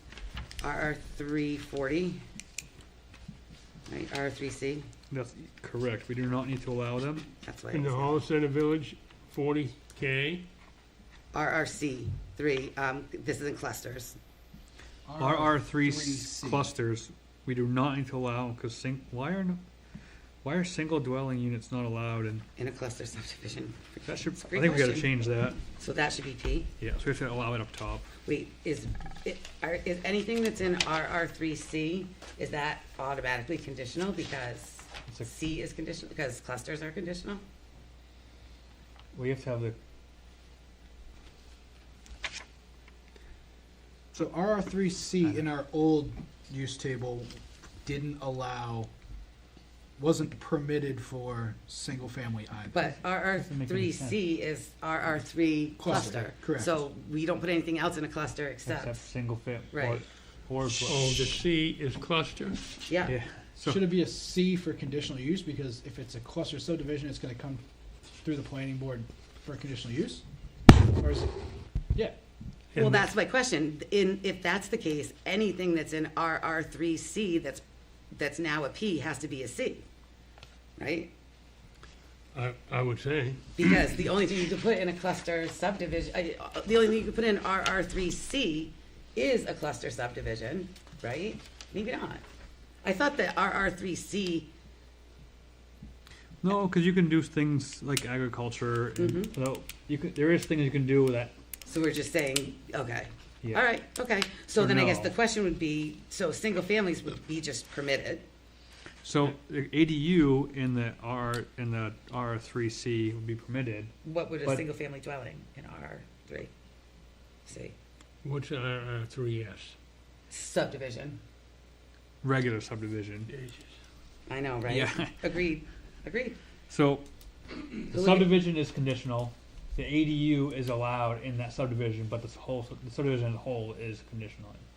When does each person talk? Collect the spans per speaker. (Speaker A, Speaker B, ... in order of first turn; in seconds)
Speaker A: 0.6-2.2, 3.9-4.9, 7.4-8.2, 11.3-14.2, 22.6-25.1, 25.8-26.7, 28.2-37.4, 52.7-59.1, 59.7-60.0, 62.9-63.1, 72.8-79.8, 80.8-81.1, 83.5-92.2, 92.8-94.5, 99.0-99.3, 101.7-108.2, 114.0-116.5, 117.5-117.7, 120.3-121.2, 124.3-126.4, 127.9-128.4
Speaker B: 5.1-7.2, 15.2-19.6, 20.4-22.4, 24.1-25.6, 26.8-28.1, 39.1-39.8, 53.4-54.2, 58.7-61.0, 63.0-63.9, 96.4-101.3, 104.5-105.1, 109.0-113.9, 122.2-123.3, 124.7-125.2, 126.7-127.0, 127.7-134.6
Speaker C: 7.7-10.4, 60.6-62.6, 72.7-73.1, 82.3-83.7, 118.2-119.7, 123.3-123.7
Speaker D: 15.0-16.7, 44.1-48.9, 50.0-52.9, 55.8-56.9, 63.6-67.6, 68.2-70.2, 70.8-71.3